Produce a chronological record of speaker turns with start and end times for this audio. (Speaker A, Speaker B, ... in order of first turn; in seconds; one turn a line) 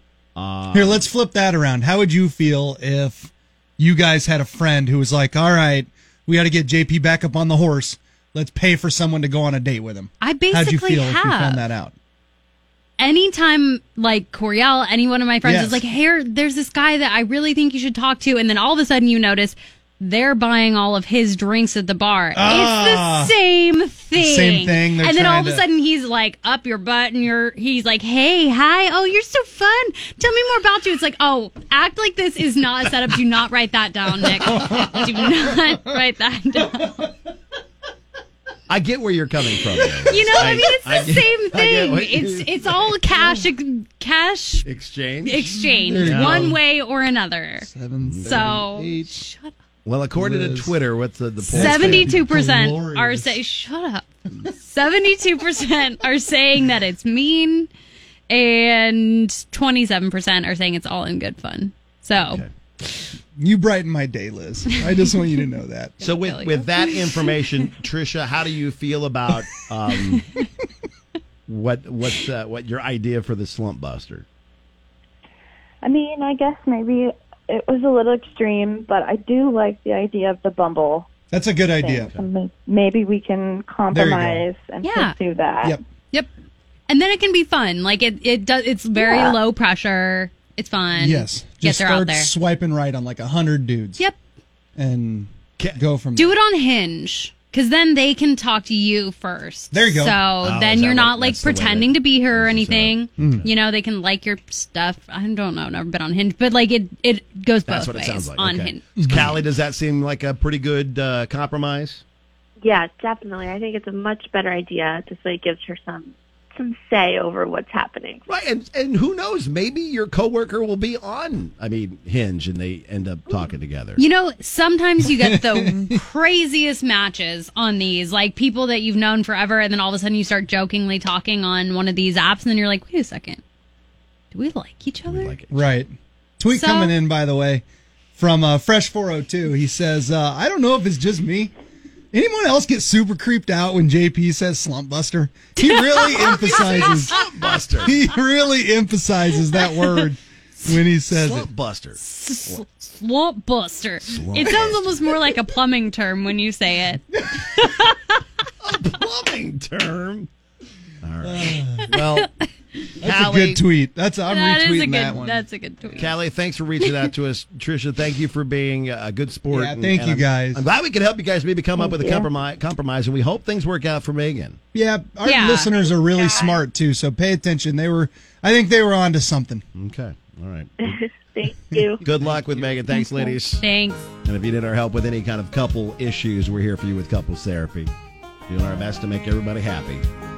Speaker A: 0.3-1.0
Speaker B: 0.7-11.9
Speaker C: 10.2-11.7
Speaker C: 13.0-37.1
Speaker B: 15.4-15.8
Speaker B: 22.3-23.3
Speaker B: 24.1-25.7
Speaker B: 34.8-35.3
Speaker A: 38.7-42.8
Speaker C: 40.1-44.7
Speaker A: 44.6-45.5
Speaker C: 45.2-47.7
Speaker B: 45.4-46.6
Speaker A: 46.0-46.5
Speaker B: 47.6-49.2
Speaker A: 48.0-48.4
Speaker C: 48.2-49.5
Speaker A: 49.8-52.2
Speaker B: 50.1-50.8
Speaker C: 51.4-57.7
Speaker B: 51.5-53.4
Speaker C: 58.3-63.0
Speaker A: 62.1-62.5
Speaker B: 63.4-66.0
Speaker C: 66.0-67.3
Speaker A: 66.0-70.2
Speaker A: 71.5-74.2
Speaker D: 75.8-81.1
Speaker B: 81.3-82.1
Speaker D: 81.8-85.8
Speaker A: 82.0-82.2
Speaker B: 83.9-84.5
Speaker C: 84.8-85.2
Speaker C: 86.9-92.3
Speaker D: 89.0-89.4
Speaker B: 91.0-94.0
Speaker B: 94.8-96.4
Speaker A: 95.6-95.8
Speaker C: 96.2-108.8
Speaker B: 99.7-100.2
Speaker A: 100.4-103.5
Speaker B: 103.2-103.4
Speaker A: 107.7-112.0
Speaker B: 109.0-109.4
Speaker E: 112.6-118.3
Speaker A: 118.3-124.0
Speaker C: 124.0-133.4
Speaker B: 125.0-126.0
Speaker C: 134.3-135.3
Speaker A: 135.1-135.7
Speaker B: 135.5-137.6
Speaker C: 136.5-136.9
Speaker B: 138.2-141.5
Speaker B: 142.1-147.2
Speaker C: 145.6-147.2
Speaker A: 146.2-147.9
Speaker B: 147.8-151.5
Speaker C: 149.6-150.0
Speaker A: 151.1-152.6
Speaker C: 152.0-158.2
Speaker A: 154.0-155.0
Speaker B: 154.4-154.8
Speaker B: 157.1-157.7
Speaker A: 158.6-160.3
Speaker A: 161.0-162.3
Speaker B: 161.2-161.9
Speaker C: 162.0-162.9
Speaker B: 163.0-165.4
Speaker A: 163.0-163.6
Speaker C: 164.3-166.1
Speaker A: 165.9-174.6
Speaker C: 166.8-167.1
Speaker B: 169.5-170.6
Speaker E: 171.8-172.2
Speaker B: 174.7-179.6
Speaker C: 175.2-175.7
Speaker E: 175.8-176.6
Speaker A: 179.7-181.0
Speaker E: 180.8-182.0
Speaker A: 182.0-183.6
Speaker C: 183.5-184.0
Speaker A: 184.2-187.9
Speaker A: 188.5-190.0